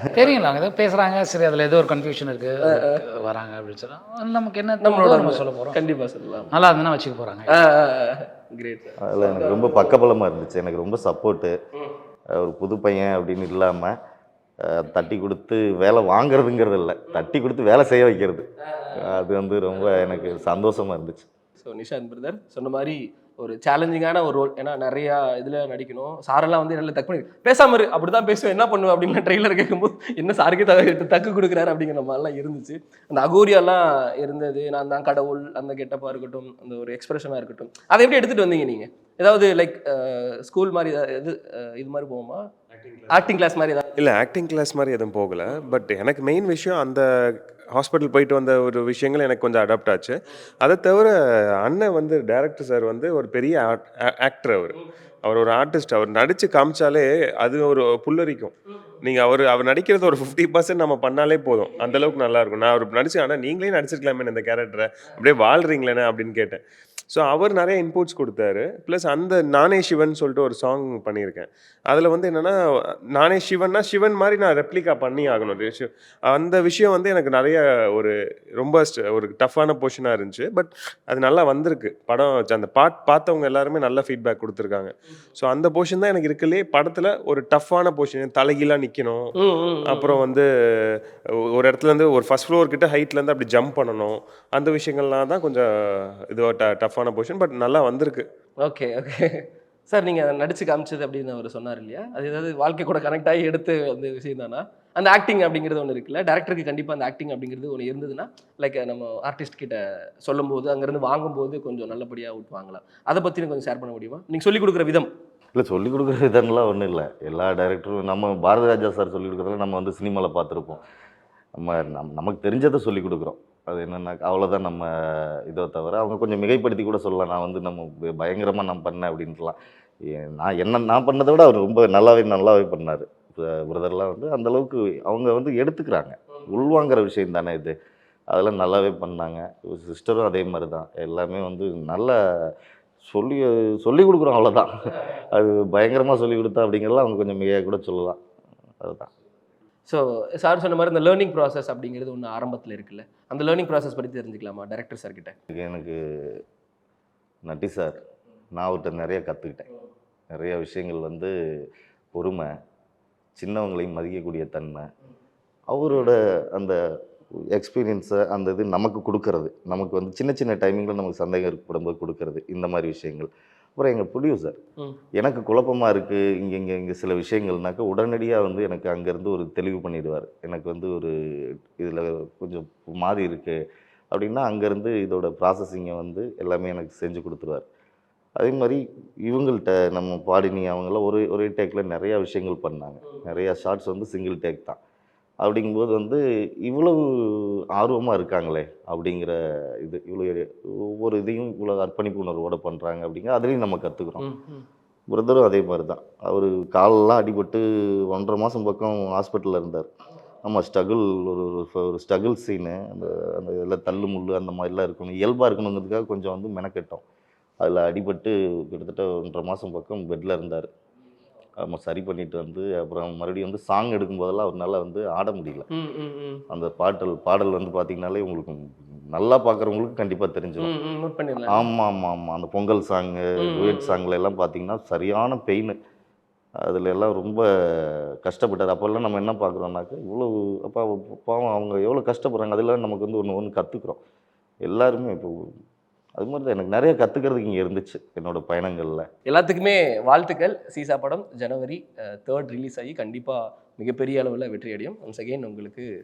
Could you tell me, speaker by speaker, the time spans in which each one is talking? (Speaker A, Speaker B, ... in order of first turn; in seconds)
Speaker A: 0.1-5.8, 6.5-7.6
Speaker B: 2.6-3.0, 4.8-6.5, 7.5-10.0, 21.6-42.4, 43.1-43.9, 89.4-90.2, 98.6-115.1, 149.9-155.4, 204.2-204.6, 225.7-226.4, 230.6-231.7, 233.4-234.0, 249.3-255.9
Speaker C: 9.0-11.5, 12.3-14.0, 14.6-21.2, 115.5-120.8, 121.6-137.7, 138.3-142.5, 143.0-148.2, 148.8-149.1, 155.5-156.0, 157.4-158.0, 158.5-159.7, 160.3-161.3, 162.1-162.5, 163.4-164.9, 165.7-166.8, 167.5-174.6, 175.2-181.1, 181.8-183.6, 184.1-187.6, 188.4-194.8, 195.4-204.3, 205.1-209.9, 210.4-217.0, 217.6-220.7, 221.6-225.7, 226.5-228.6, 229.1-230.7, 231.5-235.8, 236.6-244.0, 244.6-245.5, 246.2-249.1
Speaker D: 42.9-43.2, 44.0-47.0, 47.7-72.6, 73.1-89.3, 89.8-90.5, 91.5-95.7, 96.3-98.3